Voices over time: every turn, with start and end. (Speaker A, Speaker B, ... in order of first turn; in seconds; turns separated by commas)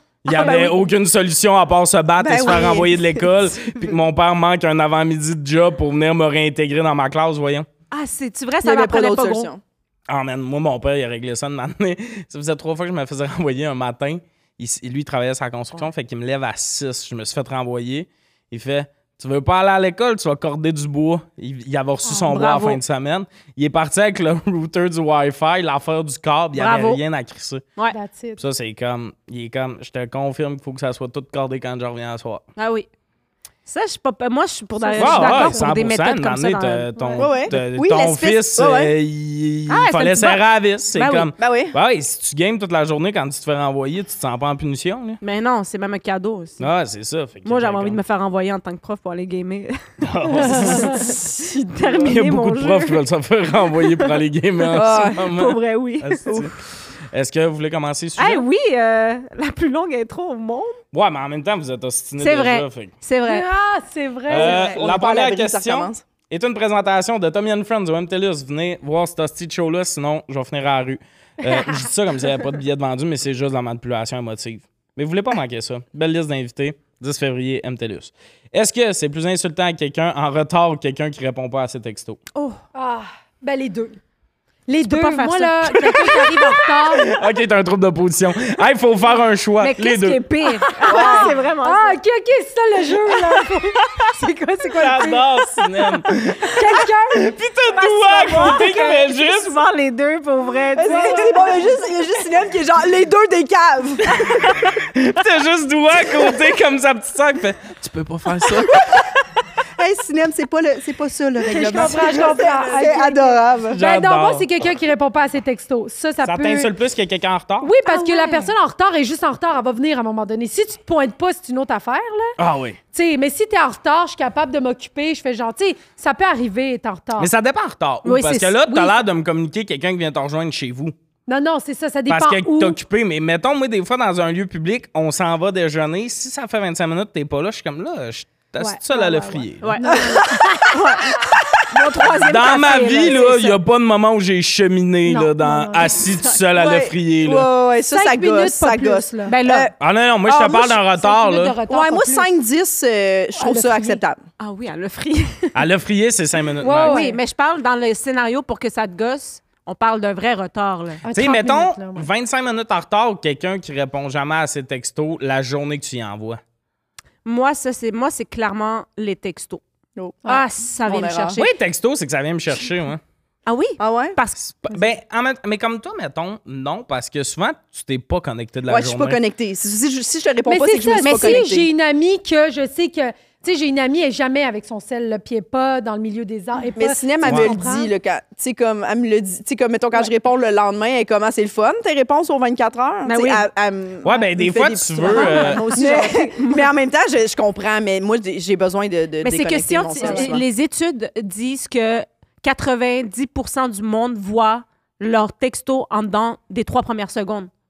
Speaker A: 0.2-7.7, Speaker B: 0.3-0.7, Speaker C: 0.4-0.7, Speaker D: 2.2-3.3, Speaker B: 7.9-9.5, Speaker D: 8.6-9.6, Speaker A: 10.1-27.6, Speaker B: 22.1-22.8, Speaker B: 26.6-27.0, Speaker C: 27.9-28.4, Speaker A: 28.4-32.4, Speaker B: 32.6-32.9, Speaker B: 33.7-36.9, Speaker C: 34.8-35.7, Speaker A: 35.0-45.2, Speaker C: 37.0-37.4, Speaker D: 37.2-38.9, Speaker B: 39.7-41.3, Speaker D: 41.4-41.8, Speaker B: 45.2-46.7, Speaker A: 46.6-48.0, Speaker B: 47.5-49.8, Speaker A: 50.0-51.1, Speaker B: 50.4-53.0, Speaker C: 50.5-51.0, Speaker D: 50.9-52.1, Speaker A: 52.0-56.5, Speaker B: 53.8-54.2, Speaker D: 54.7-55.2, Speaker B: 54.7-56.3, Speaker A: 57.1-58.4, Speaker B: 58.2-60.8, Speaker A: 60.9-62.9, Speaker B: 62.2-63.5, Speaker C: 63.3-64.6, Speaker A: 64.3-82.2, Speaker D: 64.3-66.0, Speaker B: 82.3-82.6, Speaker C: 82.8-84.0, Speaker C: 84.7-87.2, Speaker B: 84.8-86.7, Speaker A: 86.9-90.2, Speaker B: 89.6-92.0, Speaker C: 90.7-95.9, Speaker D: 90.9-91.4, Speaker B: 92.9-94.1, Speaker A: 94.8-99.6, Speaker C: 96.4-97.3, Speaker B: 97.8-101.4, Speaker D: 100.8-104.6, Speaker C: 100.8-101.8, Speaker A: 104.1-108.8, Speaker D: 109.8-113.8, Speaker C: 111.4-116.7, Speaker B: 111.7-112.9, Speaker A: 113.7-114.5, Speaker A: 116.2-117.7, Speaker C: 117.6-122.3, Speaker B: 117.9-118.5, Speaker A: 122.4-122.8, Speaker C: 122.9-127.3, Speaker A: 127.2-130.9, Speaker B: 128.0-128.9, Speaker C: 131.3-132.8, Speaker A: 132.1-139.8, Speaker C: 138.6-140.8, Speaker B: 139.6-143.6, Speaker D: 139.9-140.6, Speaker A: 142.2-147.5, Speaker C: 145.1-145.9, Speaker D: 146.5-149.7, Speaker C: 147.9-149.4, Speaker B: 149.3-149.7, Speaker A: 149.8-151.6, Speaker D: 150.3-150.8, Speaker C: 150.7-152.3, Speaker D: 151.7-154.2, Speaker C: 153.4-154.0, Speaker B: 154.4-155.6, Speaker A: 155.5-157.0, Speaker C: 156.6-157.2, Speaker B: 156.9-161.0, Speaker C: 161.0-162.1, Speaker A: 161.1-166.4, Speaker B: 167.2-169.6, Speaker B: 170.3-171.5, Speaker D: 170.9-171.4, Speaker A: 171.4-173.0, Speaker B: 173.5-174.4, Speaker D: 173.8-174.2, Speaker A: 174.4-179.2, Speaker D: 178.7-181.7, Speaker C: 180.5-187.9, Speaker B: 181.0-181.5, Speaker D: 186.8-200.4, Speaker A: 187.2-187.5, Speaker B: 193.1-193.4, Speaker A: 194.0-195.6, Speaker B: 195.1-196.7, Speaker C: 195.2-196.1, Speaker B: 199.2-207.5, Speaker C: 200.0-200.4